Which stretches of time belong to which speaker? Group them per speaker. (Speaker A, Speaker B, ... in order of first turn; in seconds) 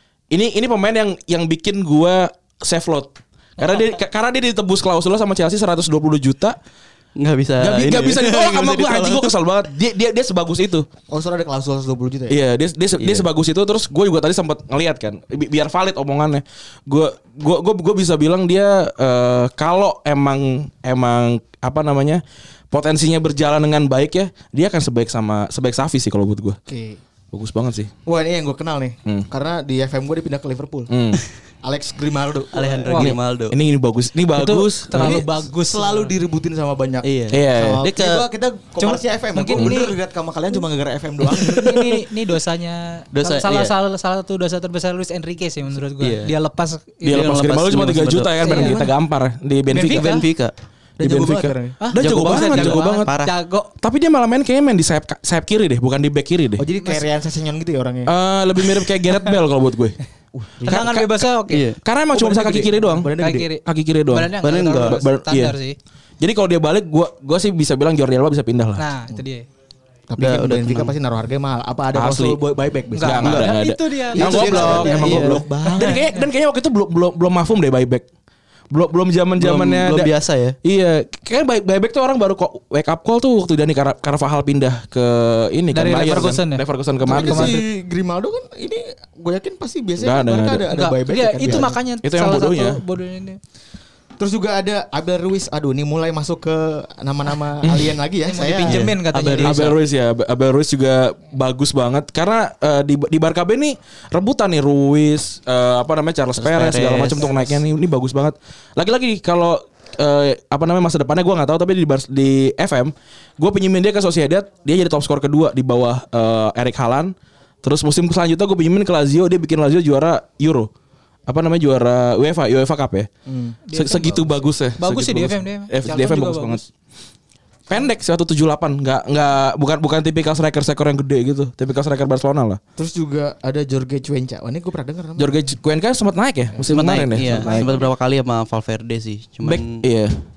Speaker A: 0.3-6.6, 7.6-10.9, 12.3-26.6, 27.3-27.9, 30.9-31.2, 33.0-35.2, 37.3-37.8, 47.0-50.2, 51.0-53.1, 53.8-56.7, 58.1-60.0, 60.7-63.1, 63.6-65.6, 66.2-68.8, 71.9-72.4, 73.0-78.0, 78.7-80.1, 80.6-87.6, 90.0-90.7, 91.4-92.8, 97.6-97.9, 99.4-120.7, 121.3-123.1, 123.7-126.7, 127.7-132.6, 135.2-137.7, 139.4-140.2
Speaker B: 7.2-9.3, 13.0-13.2, 32.5-33.6, 37.0-38.2, 43.1-43.7, 46.0-46.3, 47.1-48.4, 49.9-50.5, 52.0-53.3, 61.5-61.8, 64.4-65.0, 70.2-71.0, 74.3-75.4, 79.4-80.6, 98.7-99.7, 106.4-107.6, 136.7-139.8
Speaker C: 11.1-12.4, 26.7-27.0, 28.1-30.9, 31.6-32.9, 34.9-42.0, 48.4-48.9, 51.0-51.8, 56.6-58.1, 60.3-60.9, 62.1-63.5, 70.1-73.6, 74.2-76.1, 87.0-91.8, 94.2-98.9, 123.3-123.6, 132.8-135.5, 136.6-137.9
Speaker D: 32.9-33.1, 34.3-36.1, 38.8-40.0, 41.2-47.9, 48.4-48.8, 49.7-50.3, 51.8-53.7, 60.7-61.7, 63.2-65.8, 68.8-69.5, 73.0-76.2, 85.7-87.6, 90.7-93.4, 98.3-99.8, 123.7-126.6